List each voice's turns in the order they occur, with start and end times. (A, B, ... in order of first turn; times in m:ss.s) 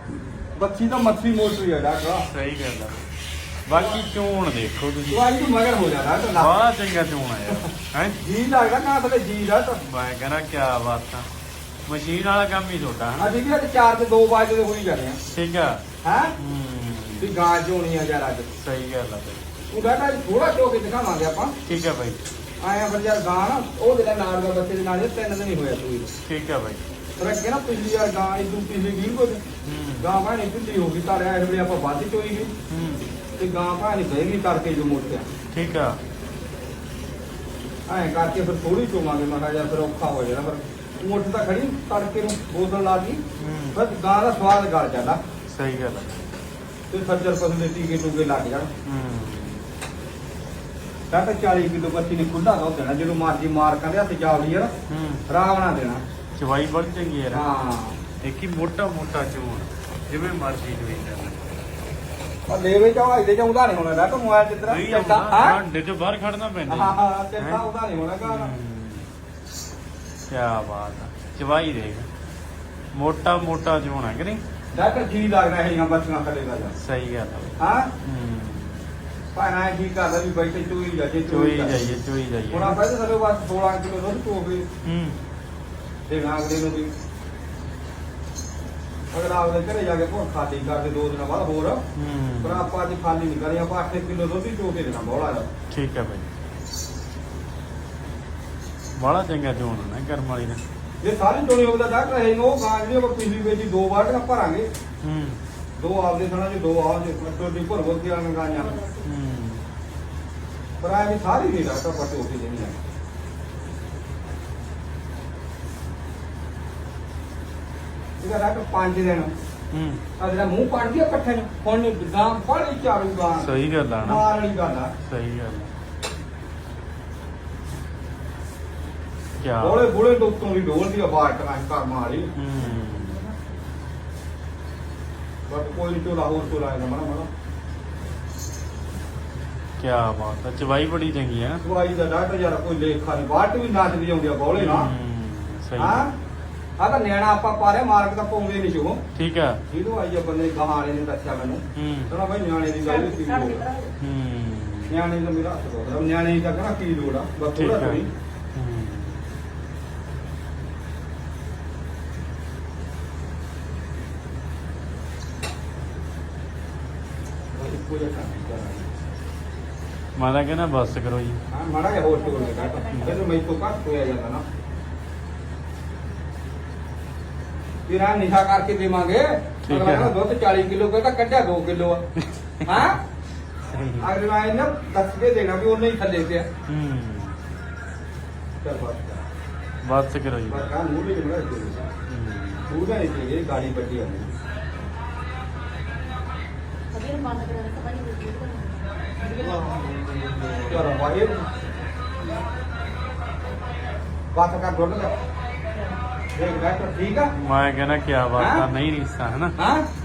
0:00.5-0:02.3 A
0:02.3-0:03.1 B
0:03.6-0:05.3 B
0:05.1-0:06.6 A
0:06.4-0:08.2 B
0:08.2-0:09.8 A
0:09.8-0:11.3 B
0:11.9-0:13.3 B
0:13.2-0:15.2 A
0:15.3-0:15.8 B
0:16.0-0:16.4 A
0:16.4-0:17.4 B
0:17.2-0:18.5 A
0:18.6-0:19.4 B
0:19.7-0:21.6 A
0:21.6-0:22.2 B
0:22.6-0:26.1 A
0:26.2-0:26.8 B
0:27.2-0:29.4 A
0:29.6-0:30.1 B
0:30.0-0:32.5 A
0:32.7-0:33.1 B
0:33.4-0:35.3 A
0:35.5-0:36.0 B
0:37.9-0:43.2 A
0:43.4-0:43.8 B
0:43.7-0:45.2 A
0:45.5-0:46.3 B
0:46.9-0:48.7 A
0:48.9-0:49.6 B
0:51.1-0:54.7 A
0:54.9-0:55.2 B
0:55.3-0:56.0 A
0:56.4-0:57.5 B
0:57.3-0:58.0 A
0:58.2-1:01.5 B
1:02.5-1:05.6 A
1:04.6-1:07.7 B
1:06.7-1:08.5 A
1:08.2-1:09.1 B
1:10.3-1:12.1 B
1:12.9-1:14.4 B
1:14.7-1:16.8 A
1:16.8-1:18.8 B
1:17.6-1:17.9 A
1:19.3-1:21.8 A
1:21.3-1:22.8 B
1:22.5-1:24.7 A
1:24.8-1:25.2 B
1:26.1-1:26.9 A
1:29.1-1:31.8 A
1:31.9-1:32.7 B
1:32.4-1:35.5 A
1:35.7-1:36.3 B
1:39.0-1:40.6 B
1:41.0-1:44.7 A
1:45.0-1:45.4 B
1:45.8-1:48.8 A
1:49.0-1:49.6 B
1:50.8-1:52.8 A
1:58.2-1:59.3 A
1:59.7-2:00.0 B
2:00.2-2:04.9 A
2:03.4-2:04.3 B
2:05.0-2:05.7 B
2:09.4-2:09.9 B
2:09.6-2:12.3 A
2:12.4-2:13.3 B
2:12.8-2:13.3 C
2:15.5-2:17.3 A
2:19.8-2:21.6 B
2:21.6-2:24.9 A
2:24.6-2:26.1 B
2:25.8-2:26.1 A
2:26.8-2:29.0 A
2:29.2-2:29.6 B
2:29.7-2:33.6 A
2:31.8-2:32.1 B
2:32.9-2:33.9 C
2:34.0-2:35.0 B
2:34.9-2:38.1 A
2:37.6-2:39.2 B
2:47.5-2:48.9 A
2:50.2-2:51.4 B
2:51.5-2:54.4 A
2:52.3-2:53.2 C
2:52.9-2:53.2 B
2:57.9-3:02.0 A
2:59.6-3:00.1 B
3:02.2-3:02.9 B
3:02.6-3:03.0 A
3:03.6-3:04.1 B
3:04.0-3:06.5 A
3:06.7-3:07.4 B
3:08.6-3:09.2 A
3:09.8-3:10.7 B
3:10.5-3:11.9 A
3:12.1-3:12.7 B
3:12.7-3:14.3 A
3:16.9-3:19.8 C
3:19.4-3:20.9 B
3:20.6-3:21.5 A
3:24.3-3:25.1 A
3:26.3-3:27.3 A
3:27.4-3:29.5 B
3:28.4-3:28.6 A
3:29.6-3:29.9 A